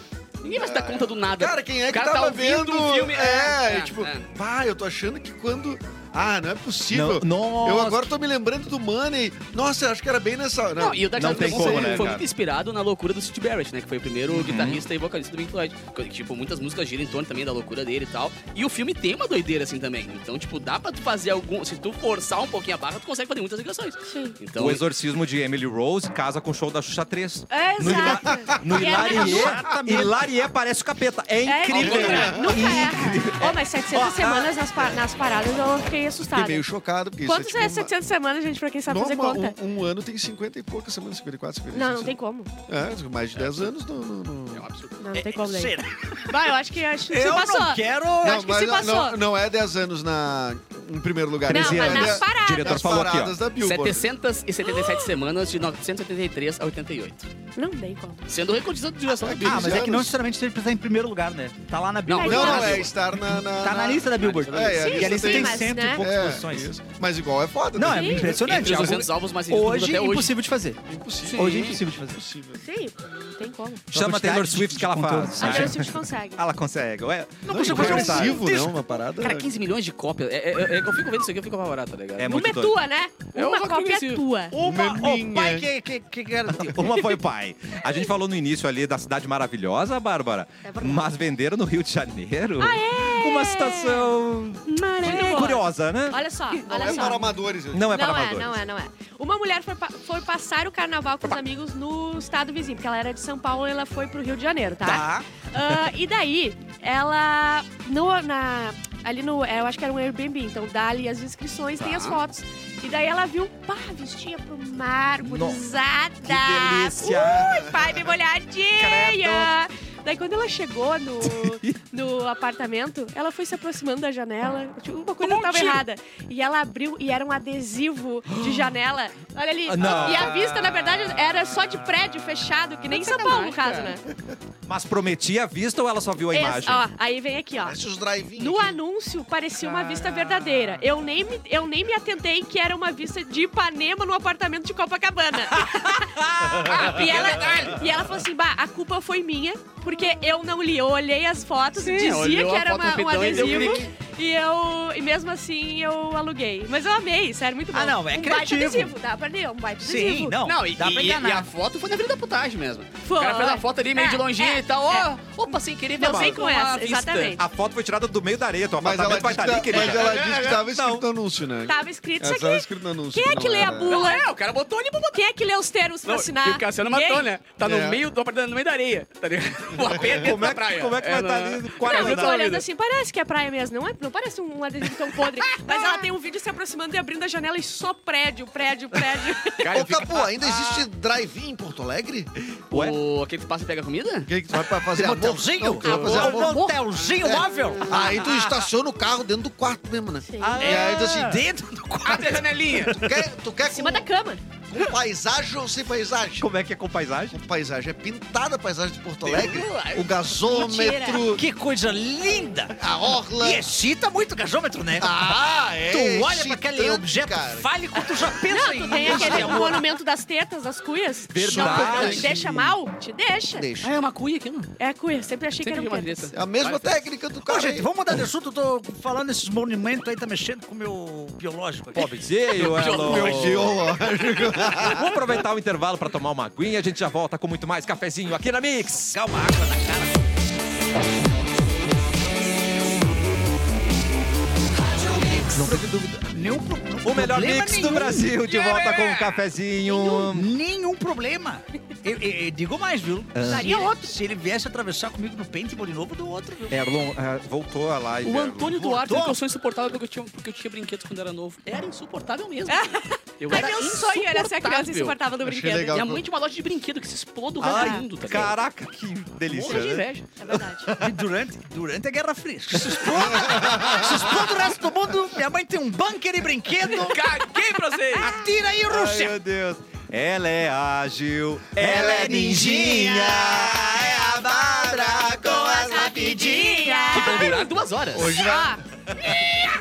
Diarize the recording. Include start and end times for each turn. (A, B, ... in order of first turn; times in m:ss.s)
0:00.4-0:04.3 A
0:00.4-0:12.2 B
0:06.9-0:08.1 C
0:10.8-0:24.8 A
0:11.1-0:12.2 C
0:14.3-0:14.8 C
0:24.1-0:24.4 D
0:24.6-0:34.6 C
0:27.5-0:29.6 D
0:27.9-0:28.6 B
0:28.7-0:30.2 E
0:31.4-0:36.6 D
0:31.7-0:32.7 B
0:36.3-0:37.9 B
0:37.2-0:39.5 D
0:38.9-0:44.6 B
0:41.7-0:42.5 D
0:44.5-0:45.0 A
0:45.0-0:45.7 D
0:45.1-0:46.3 E
0:46.3-0:49.2 D
0:47.1-0:48.4 E
0:48.2-0:54.1 B
0:51.5-0:53.4 C
0:51.5-0:52.9 D
0:53.6-0:57.3 A
0:54.6-0:55.1 D
0:57.6-0:58.2 D
0:58.3-0:59.9 A
0:59.2-1:00.1 B
0:59.4-1:06.7 E
1:02.1-1:02.9 A
1:02.1-1:02.8 D
1:02.2-1:08.8 B
1:04.2-1:05.3 A
1:04.7-1:06.0 D
1:07.7-1:10.8 E
1:07.9-1:08.3 D
1:08.2-1:10.3 A
1:10.8-1:12.6 B
1:11.2-1:11.8 A
1:11.4-1:12.2 E
1:12.6-1:13.8 D
1:13.9-1:15.8 E
1:13.9-1:18.4 C
1:15.4-1:16.4 D
1:17.4-1:18.8 E
1:17.5-1:19.5 B
1:19.2-1:22.4 A
1:22.2-1:22.8 C
1:22.3-1:24.5 D
1:23.3-1:24.2 A
1:24.5-1:27.0 E
1:24.6-1:25.7 B
1:26.5-1:36.2 C
1:32.6-1:34.1 D
1:34.6-1:37.3 D
1:36.6-1:37.9 B
1:37.7-1:38.6 C
1:37.9-2:14.0 D
1:44.8-1:45.2 E
1:51.8-1:52.2 A
1:55.2-1:55.6 C
1:56.2-1:57.8 C
1:57.2-1:57.7 B
1:58.8-1:59.5 C
2:01.2-2:01.8 C
2:05.2-2:05.8 A
2:09.7-2:10.8 C
2:09.8-2:10.3 A
2:12.9-2:14.0 A
2:14.6-2:16.8 C
2:16.3-2:17.8 D
2:17.6-2:18.8 B
2:18.4-2:40.4 D
2:25.7-2:26.8 C
2:26.6-2:27.9 A
2:31.8-2:33.9 A
2:37.7-2:38.9 E
2:39.8-2:41.5 E
2:40.4-2:47.4 A
2:43.0-2:45.1 D
2:46.0-2:47.4 D
2:47.4-2:51.0 C
2:48.8-2:54.0 B
2:49.7-2:50.6 A
2:51.6-2:54.3 D
2:53.8-2:55.2 A
2:55.1-2:57.3 D
2:56.0-3:02.6 A
2:57.6-2:58.0 B
3:00.0-3:02.4 C
3:01.8-3:09.7 D
3:05.4-3:06.0 A
3:09.6-3:10.8 A
3:09.7-3:12.3 B
3:12.7-3:14.3 A
3:12.7-3:13.0 C
3:14.2-3:16.6 B
3:14.9-3:17.9 E
3:15.8-3:16.4 A
3:15.8-3:16.8 D
3:17.2-3:21.4 B
3:20.3-3:20.6 D
3:20.4-3:21.2 C
3:20.6-3:23.1 E
3:22.0-3:23.0 A
3:22.9-3:24.1 B
3:23.7-3:24.4 D
3:24.7-3:26.5 B
3:26.4-3:27.4 C
3:27.3-3:31.4 B
3:29.2-3:30.1 A
3:30.4-3:31.3 D
3:31.3-3:32.8 E
3:32.8-3:33.6 B
3:33.4-3:35.3 E
3:35.0-3:37.7 B
3:35.9-3:39.9 E
3:38.0-3:43.7 D
3:39.0-3:39.7 B
3:41.3-3:42.6 C
3:41.4-3:42.7 B
3:43.5-3:43.9 B
3:43.8-3:44.7 A
3:44.8-3:46.3 D
3:45.6-3:47.0 A
3:46.3-3:47.9 B
3:47.4-3:52.2 E
3:51.9-3:53.8 C
3:52.5-3:53.7 A
3:52.7-3:55.1 B
3:54.6-3:59.1 C
3:59.0-4:00.2 E
4:05.0-4:08.4 E
4:05.5-4:06.3 C
4:07.0-4:10.5 C
4:08.4-4:09.4 A
4:09.9-4:10.1 D
4:10.2-4:16.9 E
4:13.3-4:13.7 C
4:13.5-4:14.1 D
4:16.7-4:18.8 C
4:18.2-4:25.2 A
4:18.7-4:19.4 E
4:22.7-4:26.0 D
4:25.4-4:26.2 B
4:25.9-4:28.5 A
4:27.6-4:31.1 C
4:27.6-4:28.0 D
4:29.5-4:30.3 A
4:29.6-4:30.9 D
4:31.0-4:37.3 E
4:33.6-4:34.0 B
4:36.9-4:38.3 A
4:38.2-4:39.4 E
4:38.9-4:43.9 C
4:41.8-4:47.5 E
4:45.7-4:47.7 D
4:47.1-4:48.4 A
4:48.1-4:48.8 B
4:48.2-4:48.8 D